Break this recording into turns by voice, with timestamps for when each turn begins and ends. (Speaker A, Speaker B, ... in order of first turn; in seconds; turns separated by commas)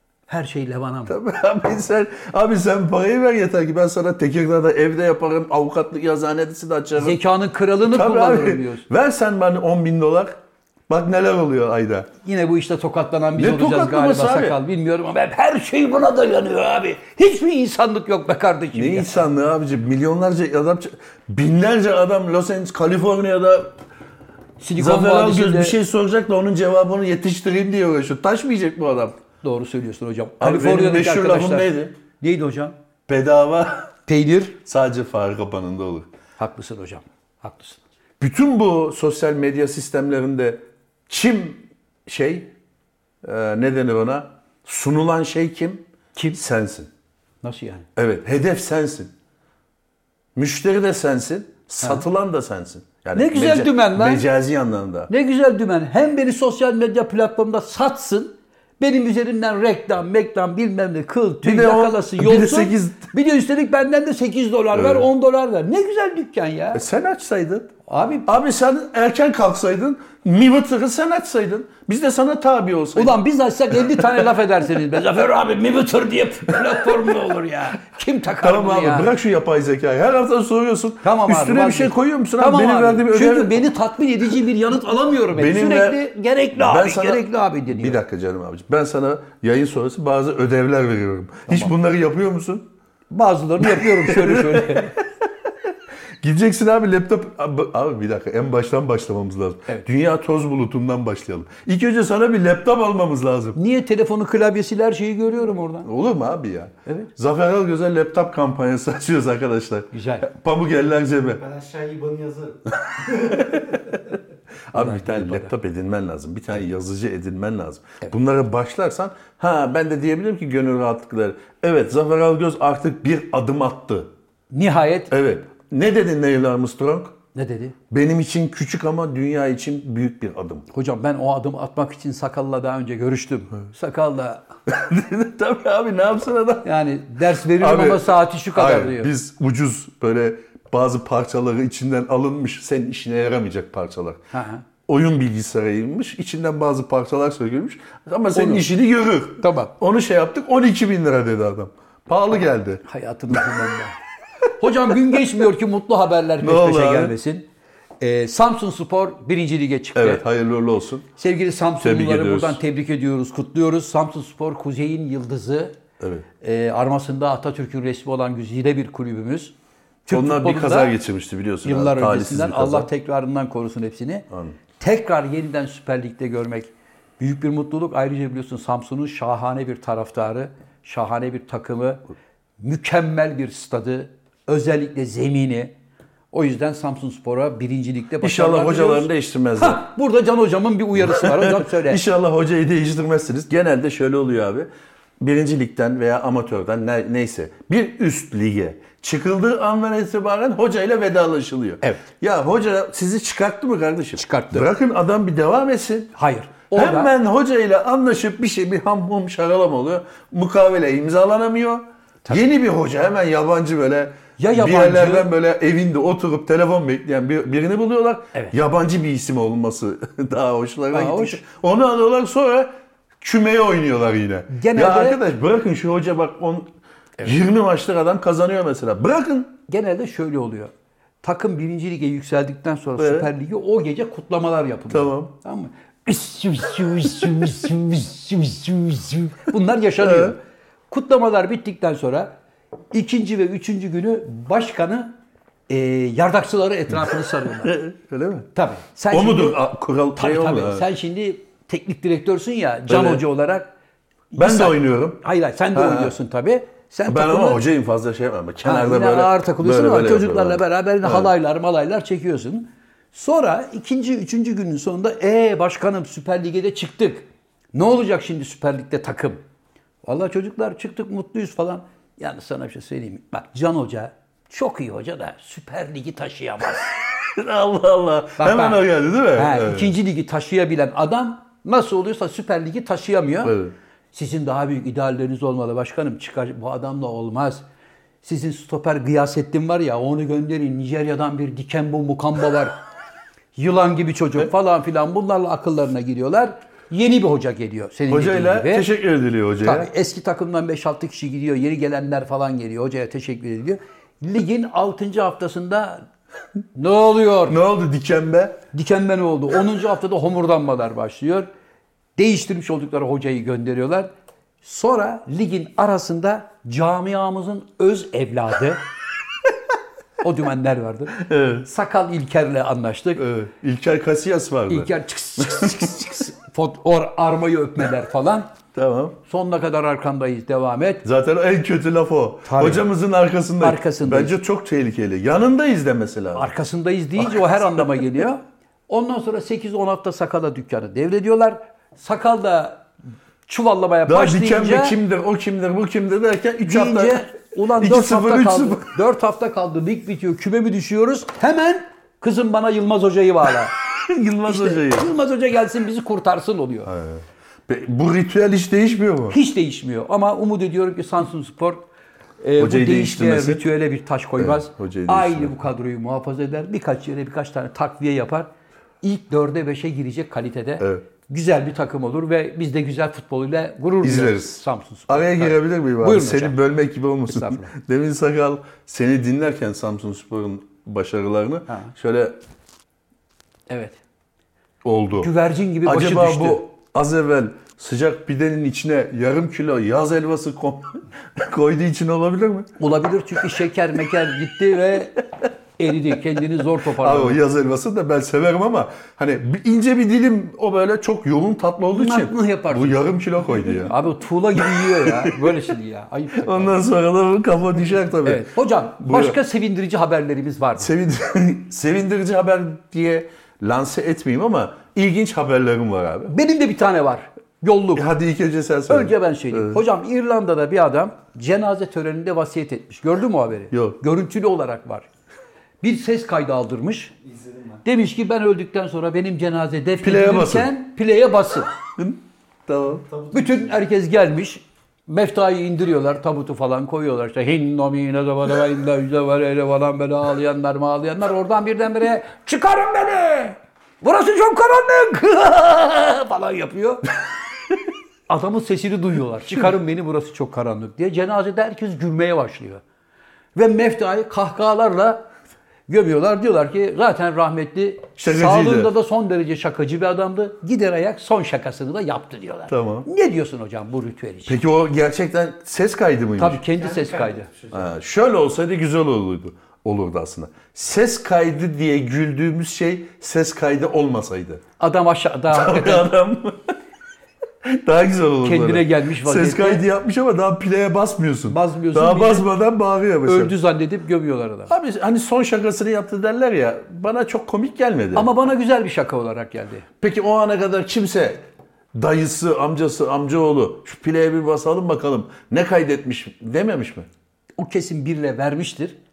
Speaker A: 0.3-1.2, Speaker B: 1.1-7.2, Speaker A: 7.0-8.9, Speaker B: 7.8-12.1, Speaker A: 12.2-19.2, Speaker B: 13.4-14.6, Speaker B: 18.7-23.8, Speaker A: 24.6-25.8, Speaker B: 24.8-29.2, Speaker A: 29.4-32.8, Speaker B: 30.4-31.9, Speaker B: 33.1-33.9, Speaker A: 34.1-34.6, Speaker B: 34.6-36.1, Speaker A: 36.4-37.8, Speaker B: 38.2-42.5, Speaker B: 43.2-45.8, Speaker B: 46.3-46.9, Speaker A: 47.4-47.9, Speaker B: 48.0-49.1, Speaker B: 50.4-55.1, Speaker A: 53.1-54.2, Speaker A: 55.1-66.8, Speaker B: 61.4-63.1, Speaker B: 64.7-65.1, Speaker B: 66.7-67.8, Speaker A: 67.9-68.4, Speaker B: 68.3-73.2, Speaker A: 73.0-79.1, Speaker B: 78.4-83.6, Speaker A: 81.0-88.0, Speaker B: 85.3-86.0, Speaker B: 86.5-92.7, Speaker A: 93.1-95.0, Speaker B: 93.6-95.0, Speaker B: 96.2-103.6, Speaker A: 103.6-105.9, Speaker B: 105.8-111.4, Speaker A: 109.9-110.3, Speaker C: 111.4-114.0, Speaker B: 113.3-113.8, Speaker B: 114.7-124.1, Speaker A: 114.7-115.5, Speaker A: 124.5-125.1, Speaker B: 125.1-127.2, Speaker A: 127.3-127.8, Speaker B: 127.9-130.7, Speaker A: 130.7-134.4, Speaker B: 134.7-136.7, Speaker A: 136.6-139.1, Speaker B: 137.6-144.2, Speaker A: 144.3-144.7, Speaker B: 144.9-152.8, Speaker A: 148.3-148.7, Speaker A: 149.4-149.7, Speaker A: 152.8-154.0, Speaker A: 154.5-157.5, Speaker B: 156.4-157.1, Speaker A: 158.0-160.2, Speaker B: 159.9-161.1, Speaker A: 161.2-165.8, Speaker B: 161.8-162.6, Speaker B: 166.0-166.3, Speaker A: 166.4-169.5, Speaker A: 170.1-170.9, Speaker B: 170.1-172.9, Speaker A: 171.6-174.3, Speaker B: 174.3-174.6, Speaker A: 174.8-182.0, Speaker A: 182.6-185.7, Speaker A: 186.3-192.0, Speaker B: 188.2-189.8, Speaker B: 191.0-194.7, Speaker B: 195.2-206.1, Speaker A: 201.8-202.1, Speaker A: 204.2-204.7, Speaker A: 206.2-207.1, Speaker B: 206.7-222.7, Speaker A: 214.4-215.3, Speaker A: 220.9-221.4, Speaker B: 223.2-226.7, Speaker A: 224.5-225.2, Speaker B: 227.2-229.6, Speaker A: 229.7-240.4, Speaker B: 233.0-233.3, Speaker B: 234.9-235.3, Speaker B: 240.0-240.4, Speaker A: 240.9-242.3, Speaker A: 242.9-245.1, Speaker A: 245.7-247.8, Speaker B: 247.6-248.5, Speaker A: 248.5-249.6, Speaker B: 249.1-250.9, Speaker A: 250.2-253.7, Speaker B: 252.9-253.2, Speaker A: 254.3-257.6, Speaker B: 254.4-255.2, Speaker B: 255.7-256.1, Speaker B: 257.1-261.3, Speaker A: 258.6-269.4, Speaker A: 270.1-277.0, Speaker B: 277.1-279.9, Speaker A: 278.4-283.6, Speaker B: 283.4-283.7, Speaker A: 284.1-287.6, Speaker A: 288.2-292.8, Speaker A: 293.6-298.9, Speaker B: 298.1-299.9, Speaker A: 299.6-306.0, Speaker A: 306.8-307.6, Speaker B: 307.5-308.6, Speaker A: 308.7-311.5, Speaker A: 312.2-314.1, Speaker A: 314.6-318.8, Speaker A: 320.2-323.2, Speaker B: 321.1-321.7, Speaker B: 323.2-325.9, Speaker A: 324.7-328.5, Speaker B: 328.7-329.2, Speaker A: 329.3-331.0, Speaker B: 331.0-336.5, Speaker A: 332.4-332.9, Speaker A: 333.6-334.4, Speaker A: 336.4-342.9, Speaker B: 337.2-338.0, Speaker A: 343.5-345.0, Speaker B: 344.1-348.9, Speaker A: 346.6-353.7, Speaker B: 353.9-355.1, Speaker A: 354.5-356.9, Speaker B: 356.9-359.4, Speaker A: 359.3-361.8, Speaker A: 362.4-368.5, Speaker B: 362.6-363.6, Speaker B: 364.4-365.5, Speaker A: 369.0-376.6, Speaker B: 374.0-382.4, Speaker A: 377.3-377.7, Speaker A: 381.7-381.9, Speaker A: 383.7-384.0, Speaker B: 384.8-385.3, Speaker A: 385.2-386.6, Speaker B: 385.8-392.7, Speaker A: 392.8-395.2, Speaker A: 395.8-397.4, Speaker B: 396.9-403.9, Speaker A: 401.9-406.9, Speaker B: 404.6-405.6, Speaker B: 406.4-409.4, Speaker A: 408.2-410.9, Speaker B: 410.8-416.3, Speaker A: 416.3-418.1, Speaker B: 418.0-419.8, Speaker A: 418.9-425.1, Speaker B: 423.7-424.0, Speaker A: 425.8-427.1, Speaker C: 427.2-427.9, Speaker A: 427.9-431.7, Speaker B: 430.0-430.7, Speaker B: 432.0-433.1, Speaker C: 433.1-433.8, Speaker A: 433.3-447.1, Speaker A: 448.3-452.8, Speaker A: 453.6-455.2, Speaker A: 455.9-464.6, Speaker B: 458.2-458.9, Speaker B: 462.7-463.1, Speaker B: 464.5-466.6, Speaker A: 466.4-467.5, Speaker C: 466.7-467.9, Speaker B: 467.7-474.6, Speaker A: 474.8-476.1, Speaker B: 475.5-476.7, Speaker B: 477.6-483.6, Speaker A: 478.4-479.8, Speaker A: 481.5-482.5, Speaker A: 483.2-484.7, Speaker B: 484.7-488.3, Speaker A: 488.1-489.9, Speaker B: 490.0-491.4, Speaker B: 491.9-497.1, Speaker A: 497.6-499.0